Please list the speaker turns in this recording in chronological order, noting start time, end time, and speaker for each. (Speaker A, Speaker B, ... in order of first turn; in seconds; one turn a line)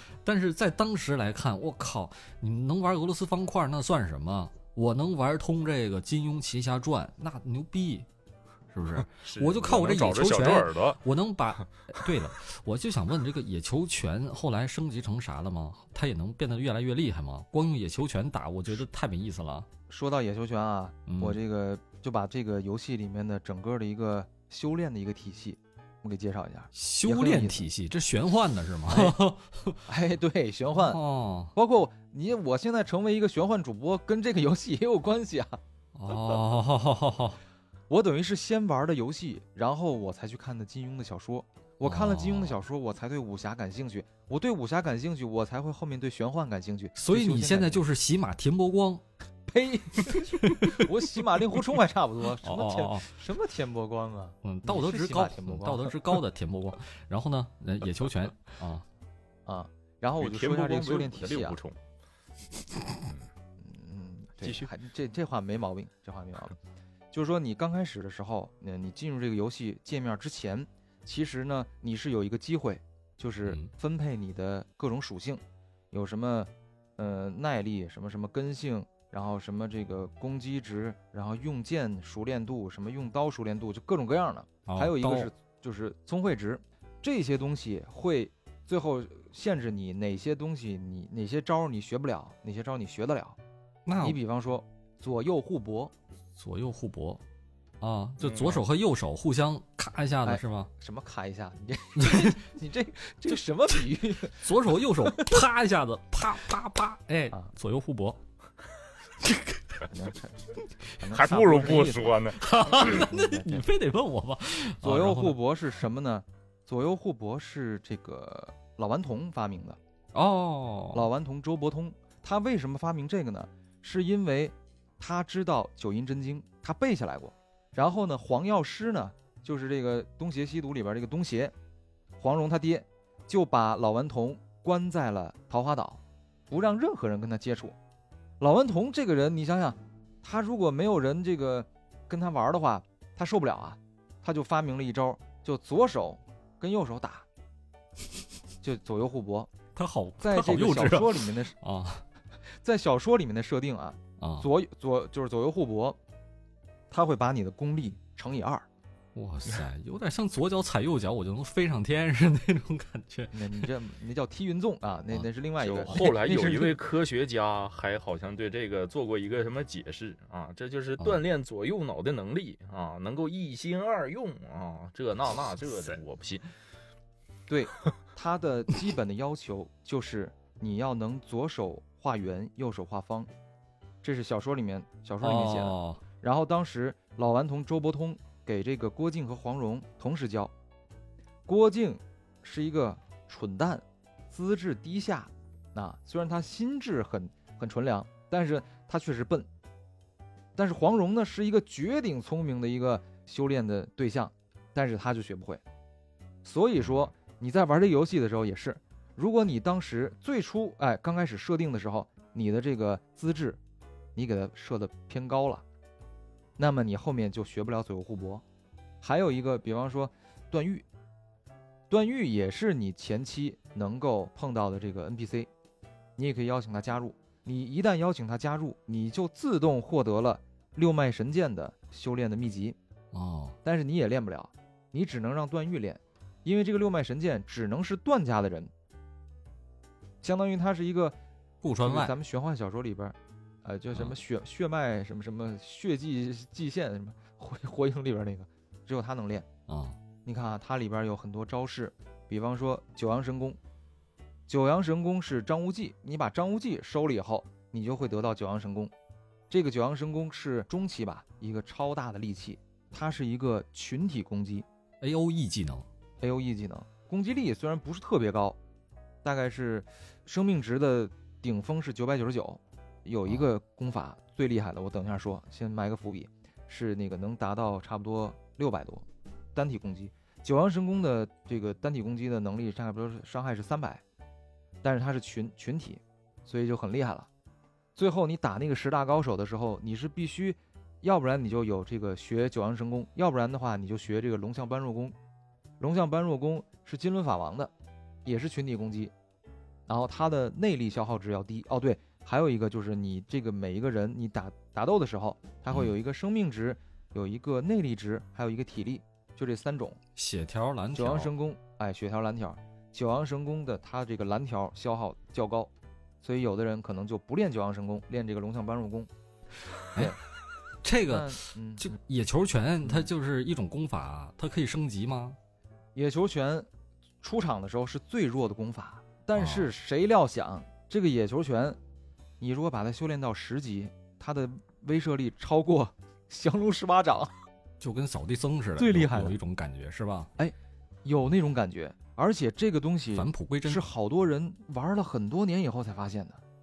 Speaker A: 0.2-8.1
Speaker A: 8.7-19.7
Speaker B: 9.1-11.0
Speaker C: 19.9-27.6
Speaker A: 21.1-21.4
Speaker A: 26.7-29.8
Speaker C: 28.9-29.2
Speaker C: 29.9-31.0
Speaker A: 30.7-31.5
Speaker C: 31.5-35.6
Speaker A: 35.9-37.4
Speaker C: 37.9-47.8
Speaker A: 41.8-42.6
Speaker A: 46.9-49.0
Speaker C: 49.5-56.1
Speaker A: 50.1-51.1
Speaker A: 52.4-53.1
Speaker A: 54.4-58.8
Speaker C: 59.5-61.6
Speaker B: 60.2-61.8
Speaker C: 63.6-66.5
Speaker B: 64.4-64.7
Speaker C: 67.1-93.4
Speaker A: 84.7-85.3
Speaker A: 93.8-94.2
Speaker C: 94.0-95.9
Speaker A: 96.3-97.2
Speaker A: 97.8-100.7
Speaker B: 98.2-98.6
Speaker C: 100.2-105.4
Speaker A: 102.0-102.4
Speaker A: 104.3-108.2
Speaker A: 109.2-109.8
Speaker C: 109.9-110.4
Speaker C: 111.0-112.2
Speaker B: 111.1-113.0
Speaker A: 112.3-115.4
Speaker C: 112.8-113.6
Speaker C: 114.8-119.8
Speaker A: 120.1-121.1
Speaker C: 120.9-131.5
Speaker C: 132.2-137.8
Speaker C: 138.4-147.2
Speaker C: 148.6-149.5
Speaker A: 149.7-152.0
Speaker C: 150.2-151.5
Speaker C: 152.5-156.0
Speaker A: 154.2-154.5
Speaker C: 156.9-158.6
Speaker A: 159.1-163.7
Speaker C: 163.3-166.8
Speaker B: 165.6-176.4
Speaker C: 177.5-183.3
Speaker C: 184.0-190.5
Speaker A: 185.2-186.0
Speaker C: 191.4-199.5
Speaker C: 200.6-205.6
Speaker C: 206.4-213.6
Speaker C: 214.2-215.6
Speaker C: 216.6-218.4
Speaker C: 219.0-220.8
Speaker C: 221.9-225.5
Speaker C: 226.2-232.8
Speaker A: 233.1-233.6
Speaker C: 233.6-238.7
Speaker C: 240.2-241.2
Speaker A: 241.6-242.2
Speaker C: 241.8-249.5
Speaker A: 249.7-250.0
Speaker C: 250.2-253.6
Speaker C: 254.5-258.9
Speaker C: 259.5-264.6
Speaker A: 265.0-265.9
Speaker C: 266.2-268.6
Speaker C: 269.2-284.0
Speaker C: 284.8-287.3
Speaker C: 287.9-295.1
Speaker C: 295.8-297.7
Speaker C: 298.2-299.1
Speaker C: 299.9-310.0
Speaker A: 310.1-311.3
Speaker C: 310.9-315.7
Speaker C: 316.2-319.1
Speaker A: 320.8-325.4
Speaker C: 321.1-321.9
Speaker C: 325.9-326.7
Speaker C: 327.2-331.8
Speaker A: 329.3-329.7
Speaker C: 332.4-337.3
Speaker A: 337.8-340.3
Speaker C: 338.8-339.4
Speaker C: 341.0-346.4
Speaker A: 343.1-343.8